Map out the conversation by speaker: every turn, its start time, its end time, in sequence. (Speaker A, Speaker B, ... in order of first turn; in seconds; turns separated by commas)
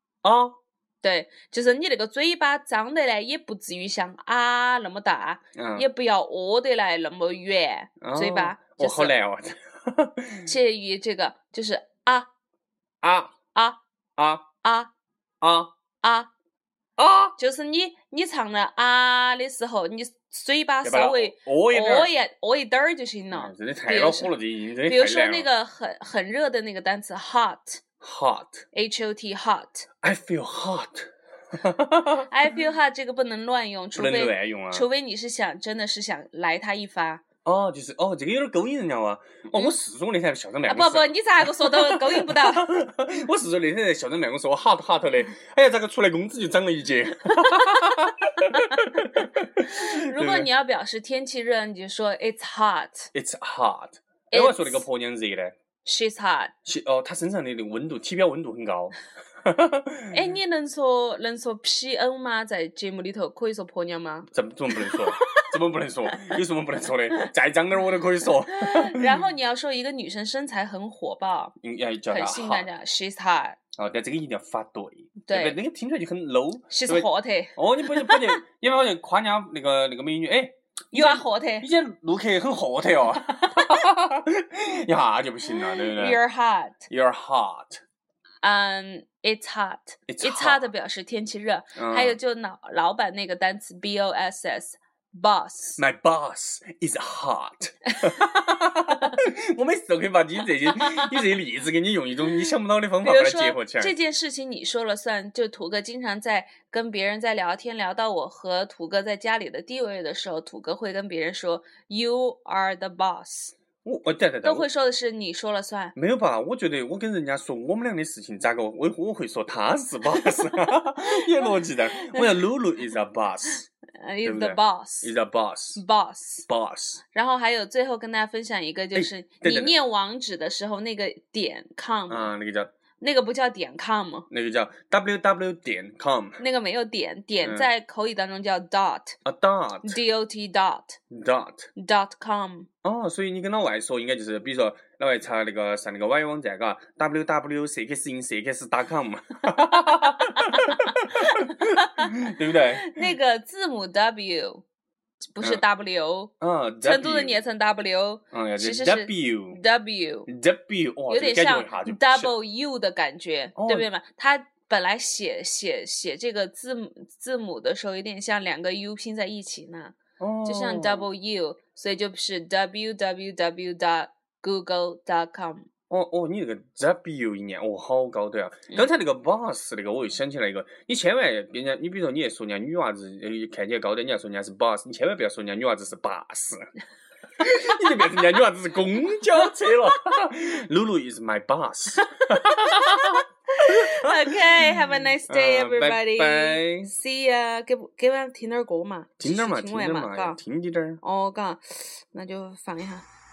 Speaker A: 0.2-0.6, Speaker B: 1.0-9.1, Speaker A: 5.5-5.8, Speaker A: 8.0-10.5, Speaker B: 10.4-12.3, Speaker A: 13.0-13.3, Speaker A: 14.2-14.4, Speaker B: 14.6-14.9, Speaker A: 15.4-15.7, Speaker B: 16.0-16.3, Speaker A: 17.0-17.4, Speaker B: 17.4-24.3, Speaker A: 20.8-22.1, Speaker A: 23.3-25.5, Speaker B: 24.8-27.8, Speaker A: 28.0-28.6, Speaker B: 28.7-29.9, Speaker A: 30.0-32.3, Speaker B: 32.3-37.2, Speaker A: 34.0-34.9, Speaker A: 37.4-50.5, Speaker B: 39.5-39.7, Speaker B: 40.7-42.7, Speaker B: 49.7-53.1, Speaker A: 53.1-55.5, Speaker B: 54.3-54.8, Speaker B: 55.8-56.5, Speaker A: 56.6-60.2, Speaker B: 60.1-65.4, Speaker A: 64.3-69.2, Speaker B: 68.5-71.5, Speaker A: 71.6-72.7, Speaker B: 72.1-73.6, Speaker A: 73.8-86.2, Speaker B: 75.2-75.6, Speaker B: 76.7-78.4, Speaker B: 80.9-81.7, Speaker B: 85.6-86.9, Speaker A: 86.9-87.8, Speaker B: 88.4-95.8, Speaker A: 90.1-90.7, Speaker A: 91.8-92.2, Speaker A: 95.8-103.9, Speaker B: 100.8-101.1, Speaker B: 103.0-113.5, Speaker A: 113.8-114.7, Speaker B: 114.4-115.9, Speaker A: 115.9-123.6, Speaker B: 120.2-122.4, Speaker B: 124.0-125.1, Speaker A: 124.2-125.8, Speaker B: 125.8-126.5, Speaker A: 126.5-127.0, Speaker B: 127.1-132.3, Speaker A: 128.9-129.7, Speaker A: 132.1-132.7, Speaker B: 133.0-134.2, Speaker A: 134.3-136.4, Speaker B: 136.4-139.2, Speaker A: 137.4-137.7, Speaker A: 139.2-140.0, Speaker B: 139.8-141.0, Speaker A: 141.1-141.7, Speaker B: 141.8-142.7, Speaker A: 142.8-153.0, Speaker B: 149.8-154.6, Speaker B: 155.3-156.3, Speaker A: 156.4-157.4, Speaker B: 156.8-160.3, Speaker A: 158.3-159.6, Speaker A: 160.3-162.3, Speaker B: 161.1-175.7, Speaker A: 163.6-163.9, Speaker A: 170.2-171.1, Speaker A: 175.9-186.6, Speaker A: 187.4-196.9, Speaker B: 193.6-200.4, Speaker A: 199.2-201.0, Speaker B: 201.0-203.1